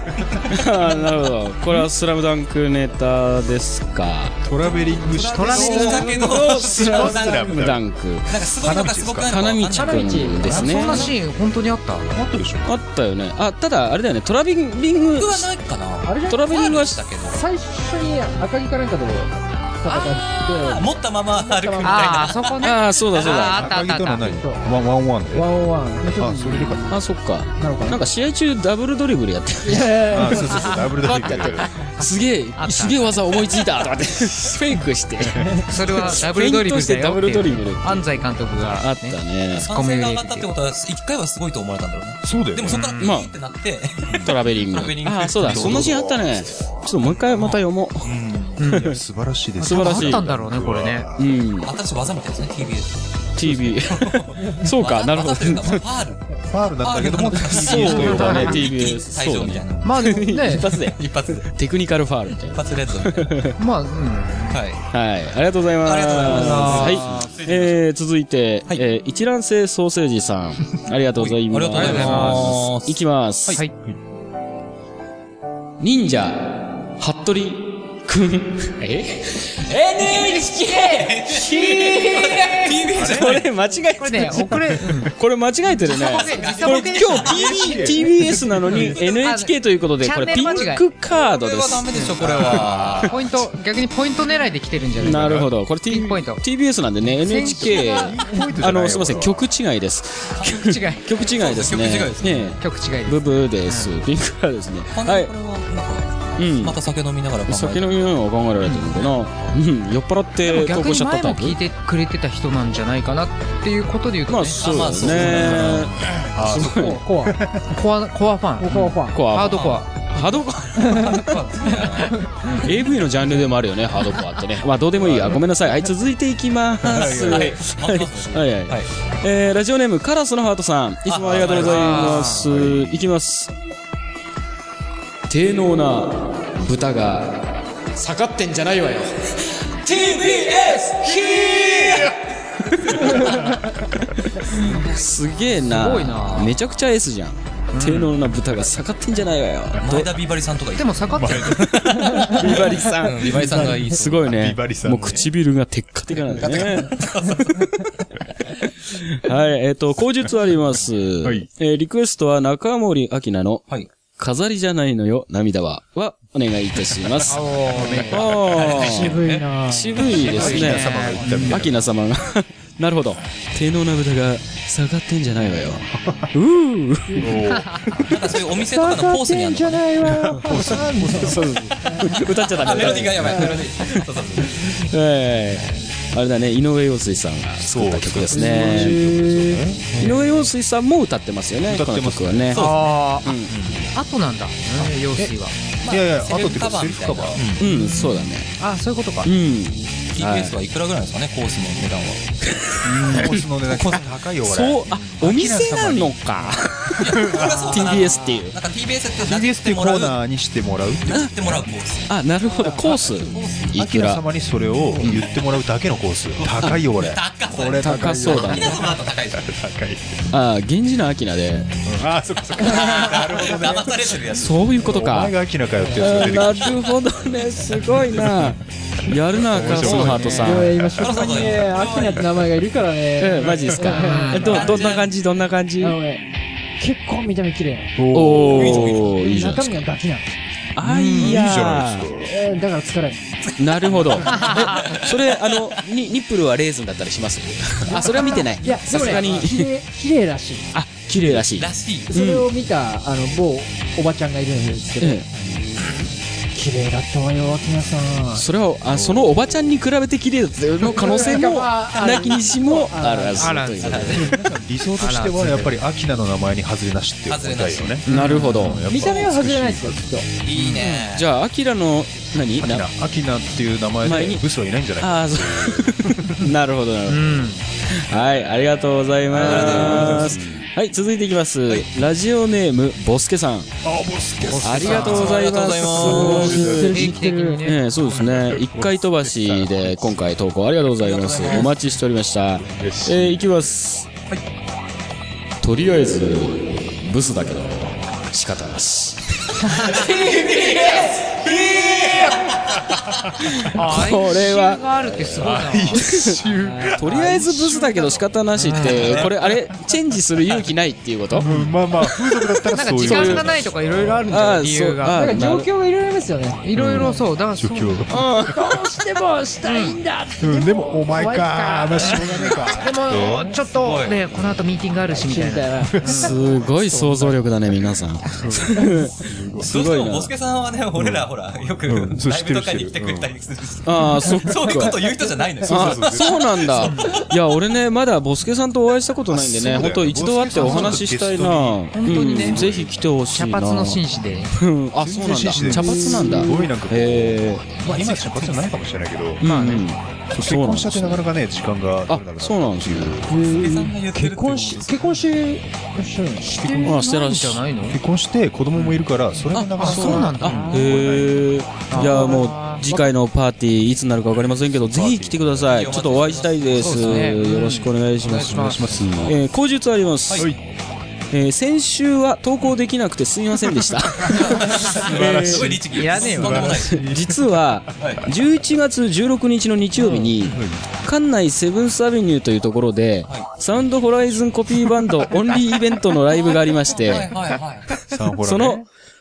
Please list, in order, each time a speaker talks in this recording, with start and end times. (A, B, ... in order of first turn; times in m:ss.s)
0:00.4-0:04.4 A
0:04.4-0:07.8 B
0:05.1-0:06.2 C
0:05.2-0:07.7 D
0:06.1-0:08.3 A
0:08.3-0:11.0 D
0:08.6-0:09.3 B
0:09.3-0:11.1 A
0:09.7-0:11.0 E
0:10.5-0:12.1 C
0:10.7-0:11.1 B
0:12.1-0:12.7 B
0:12.6-0:15.5 A
0:15.1-0:17.4 D
0:16.0-0:16.5 E
0:16.3-0:17.1 A
0:17.3-0:22.4 E
0:19.8-0:22.7 D
0:21.8-0:24.4 C
0:22.6-0:23.7 A
0:23.2-0:25.4 B
0:24.2-0:24.6 E
0:25.3-0:26.8 E
0:26.2-0:27.0 B
0:26.2-0:30.3 A
0:27.6-0:28.0 E
0:29.6-0:30.8 E
0:30.1-0:31.7 B
0:31.0-0:39.6 A
0:32.0-0:33.0 C
0:35.7-0:40.5 C
0:39.5-0:46.1 D
0:42.2-0:42.8 B
0:42.7-0:43.1 C
0:42.9-0:43.3 A
0:44.1-0:44.4 B
0:44.2-0:48.1 A
0:45.4-0:46.5 B
0:47.1-0:48.8 D
0:48.7-0:49.0 A
0:48.7-0:51.4 B
0:49.6-0:51.1 C
0:49.6-0:50.3 A
0:51.2-0:51.7 A
0:51.6-0:56.2 D
0:53.4-0:55.8 A
0:56.5-0:59.0 B
0:56.8-1:01.5 D
0:57.4-1:03.6 A
0:58.1-0:58.3 C
0:59.8-1:00.7 C
1:02.5-1:03.4 D
1:03.6-1:04.6 C
1:04.5-1:04.9 D
1:04.9-1:13.6 A
1:05.8-1:07.8 D
1:06.3-1:07.0 C
1:11.2-1:13.6 D
1:11.7-1:12.4 C
1:15.8-1:31.9 A
1:19.7-1:23.5 D
1:23.0-1:23.3 B
1:24.0-1:25.1 C
1:25.9-1:29.2 D
1:25.9-1:27.2 C
1:26.7-1:28.9 B
1:28.9-1:30.8 C
1:30.5-1:33.2 D
1:32.2-1:33.1 B
1:33.1-1:36.4 C
1:35.0-1:45.3 A
1:35.2-1:35.4 B
1:37.2-1:38.1 C
1:37.3-1:39.5 B
1:40.4-1:40.7 D
1:40.6-1:41.1 C
1:41.2-1:42.6 D
1:42.6-1:43.9 C
1:44.9-1:47.9 D
1:46.4-1:46.8 A
1:47.4-1:51.6 A
1:50.4-1:54.6 C
1:54.3-1:57.0 A
1:54.5-1:56.0 D
1:56.3-1:57.6 B
1:56.7-1:57.4 E
1:57.7-2:00.0 C
1:58.6-1:59.2 E
1:59.1-2:01.4 A
1:59.4-1:59.8 D
2:00.8-2:02.2 D
2:02.4-2:13.5 A
2:05.0-2:05.4 B
2:06.8-2:08.9 D
2:11.1-2:12.2 D
2:11.2-2:11.6 B
2:11.6-2:12.4 C
2:12.2-2:13.0 B
2:15.3-2:20.3 A
2:19.9-2:22.1 D
2:21.4-2:22.1 A
2:22.9-2:23.5 A
2:24.2-2:30.1 A
2:24.6-2:24.9 D
2:25.7-2:26.5 C
2:27.7-2:28.1 C
2:29.8-2:34.3 D
2:30.8-2:31.5 C
2:31.1-2:32.2 B
2:32.2-2:37.1 A
2:33.2-2:35.3 B
2:36.3-2:37.9 D
2:38.9-2:47.5 A
2:41.2-2:41.5 B
2:47.3-2:48.3 C
2:47.8-2:48.0 E
2:48.0-2:57.4 A
2:48.0-2:49.5 D
2:48.8-2:50.2 E
2:50.0-2:50.7 D
2:50.1-2:51.8 B
2:50.2-2:51.5 C
2:56.0-2:56.3 B
2:57.2-2:58.4 B
2:58.0-3:00.1 D
2:58.6-3:02.0 E
3:00.0-3:01.7 B
3:01.2-3:09.0 A
3:02.3-3:04.9 D
3:07.6-3:10.0 B
3:08.3-3:09.6 E
3:09.9-3:10.3 C
3:10.0-3:13.6 A
3:11.6-3:12.7 B
3:12.5-3:13.8 D
3:12.6-3:13.3 C
3:13.9-3:15.6 C
3:15.8-3:17.6 D
3:15.9-3:17.5 B
3:17.6-3:18.5 A
3:17.6-3:19.3 C
3:19.2-3:20.6 A
3:20.1-3:22.3 D
3:22.7-3:23.4 A
3:22.8-3:27.7 B
3:23.7-3:24.0 D
3:24.4-3:28.6 A
3:27.0-3:30.2 D
3:29.2-3:31.7 B
3:31.1-3:32.1 D
3:32.1-3:34.2 A
3:32.8-3:33.7 D
3:33.7-3:40.2 B
3:36.6-3:39.6 D
3:37.8-3:38.9 A
3:40.3-3:41.7 A
3:41.9-3:46.9 B
3:42.6-3:44.7 D
3:44.4-3:45.4 A
3:46.0-3:50.9 A
3:49.3-3:51.2 B
3:49.6-3:50.3 D
3:49.9-3:50.5 C
3:50.3-3:54.8 E
3:50.9-3:52.4 D
3:53.2-3:56.0 A
3:53.9-3:54.6 C
3:54.4-3:55.1 D
3:55.8-3:56.2 E
3:56.8-3:57.9 E
3:58.0-3:59.0 B
3:58.1-3:59.9 A
3:58.5-3:59.1 D
3:59.2-4:00.3 E
4:00.8-4:02.1 A
4:00.8-4:02.3 B
4:02.2-4:03.2 E
4:03.4-4:05.8 D
4:03.6-4:09.7 A
4:07.9-4:10.7 E
4:10.7-4:12.5 A
4:11.4-4:12.1 D
4:12.1-4:15.2 E
4:15.0-4:15.2 A
4:16.6-4:18.4 E
4:18.3-4:24.3 A
4:18.9-4:19.4 B
4:20.8-4:23.7 E
4:23.4-4:24.3 C
4:23.8-4:24.3 D
4:24.1-4:30.2 B
4:25.0-4:25.8 C
4:27.3-4:28.1 D
4:28.0-4:28.8 C
4:28.1-4:28.8 A
4:28.9-4:30.3 E
4:28.9-4:29.3 D
4:30.4-4:31.3 D
4:30.6-4:30.9 C
4:30.8-4:32.9 A
4:32.6-4:36.5 B
4:34.0-4:34.4 A
4:35.0-4:43.7 A
4:37.1-4:37.6 C
4:39.3-4:40.6 B
4:39.3-4:40.4 D
4:43.8-4:45.4 B
4:44.5-4:45.4 C
4:44.6-4:54.1 A
4:44.9-4:46.7 D
4:46.0-4:47.6 E
4:46.0-4:47.1 B
4:46.9-4:48.0 C
4:48.0-4:50.2 B
4:51.0-4:51.7 D
4:52.6-4:53.4 B
4:55.6-5:00.0 A
5:00.0-5:02.5 D
5:03.5-5:05.4 A
5:03.8-5:07.3 C
5:05.4-5:08.2 B
5:06.0-5:06.4 A
5:07.0-5:11.6 A
5:08.6-5:09.1 C
5:08.9-5:09.5 B
5:08.9-5:09.3 D
5:11.4-5:14.2 B
5:12.7-5:15.2 C
5:12.9-5:13.6 A
5:14.3-5:15.7 A
5:15.1-5:16.6 E
5:16.6-5:18.1 C
5:16.7-5:18.2 B
5:18.1-5:18.6 A
5:18.3-5:22.5 E
5:19.6-5:20.0 C
5:20.4-5:23.5 B
5:22.1-5:26.4 C
5:23.2-5:23.6 E
5:23.7-5:24.2 D
5:25.1-5:27.4 E
5:25.9-5:26.2 B
5:26.1-5:30.3 A
5:28.4-5:29.7 B
5:29.6-5:37.3 D
5:31.0-5:31.3 B
5:31.9-5:33.3 B
5:33.8-5:35.0 A
5:35.6-5:36.6 B
5:35.7-5:47.8 A
5:39.3-5:43.0 B
5:40.5-5:41.0 C
5:41.9-5:42.6 C
5:43.3-5:44.5 C
5:45.0-5:49.5 B
5:45.6-5:46.7 E
5:47.9-5:48.6 D
5:49.4-5:51.3 A
5:49.4-5:49.9 C
5:50.3-5:53.3 B
5:52.1-5:53.2 A
5:53.3-5:56.6 E
5:53.5-5:55.2 D
5:56.4-5:57.0 B
5:56.6-5:58.0 C
5:56.8-5:57.6 A
5:57.8-6:01.4 B
5:59.5-6:08.7 A
5:59.8-6:01.2 C
6:01.9-6:03.0 C
6:04.8-6:05.9 B
6:05.6-6:07.3 D
6:06.7-6:09.0 C
6:08.3-6:09.4 B
6:09.2-6:10.5 A
6:10.3-6:10.6 B
6:11.3-6:15.8 A
6:14.3-6:17.1 D
6:14.3-6:17.5 B
6:15.9-6:16.8 C
6:16.9-6:27.3 A
6:18.0-6:18.3 D
6:20.0-6:20.8 B
6:26.9-6:27.9 D
6:28.0-6:28.9 B
6:28.4-6:28.9 A